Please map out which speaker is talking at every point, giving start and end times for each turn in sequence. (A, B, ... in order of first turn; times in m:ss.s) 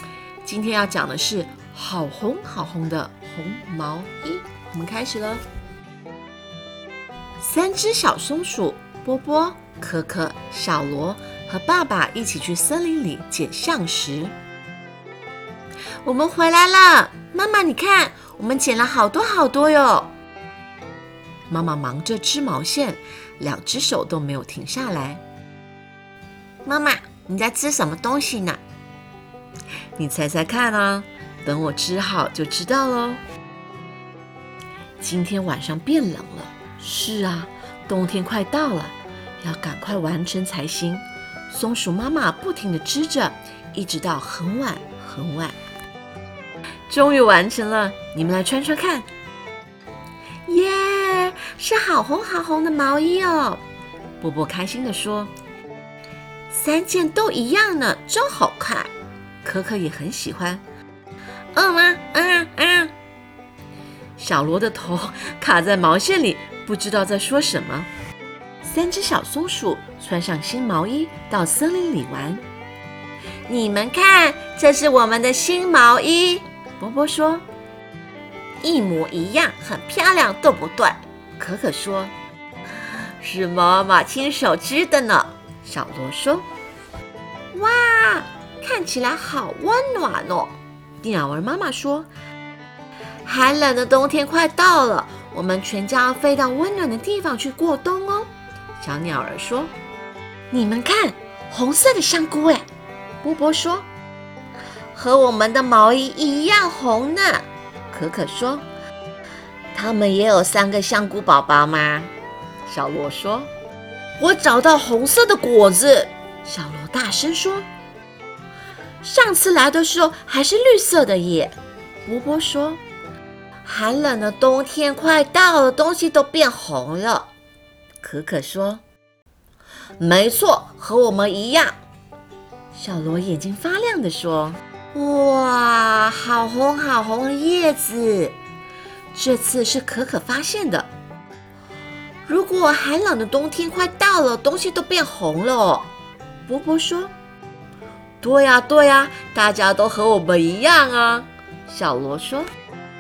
0:00.4-0:05.4 A
0:07.4-0:14.4 A
0:16.0-0:20.1 A
0:21.5-0:25.2 A
0:26.6-0:28.6 A
0:30.0-0:33.2 A
0:35.0-0:45.6 A
0:46.9-0:49.1 A
0:50.5-0:53.6 A
0:54.2-0:55.3 A
0:56.5-0:58.9 A
0:59.4-1:00.6 A
1:01.6-1:02.9 A
1:04.2-1:07.9 A
1:08.6-1:12.4 A
1:13.5-1:17.4 A
1:18.6-1:22.1 A
1:23.2-1:26.5 A
1:27.5-1:32.1 A
1:33.2-1:39.7 A
1:40.5-1:42.6 A
1:43.2-1:43.9 A
1:44.9-1:48.6 A
1:49.7-1:52.1 A
1:52.7-1:53.5 A
1:54.2-1:57.7 A
1:59.0-2:02.8 A
2:03.6-2:07.3 A
2:08.0-2:08.8 A
2:10.0-2:11.8 A
2:12.7-2:18.4 A
2:19.1-2:20.9 A
2:22.3-2:25.9 A
2:26.5-2:27.1 A
2:28.2-2:32.5 A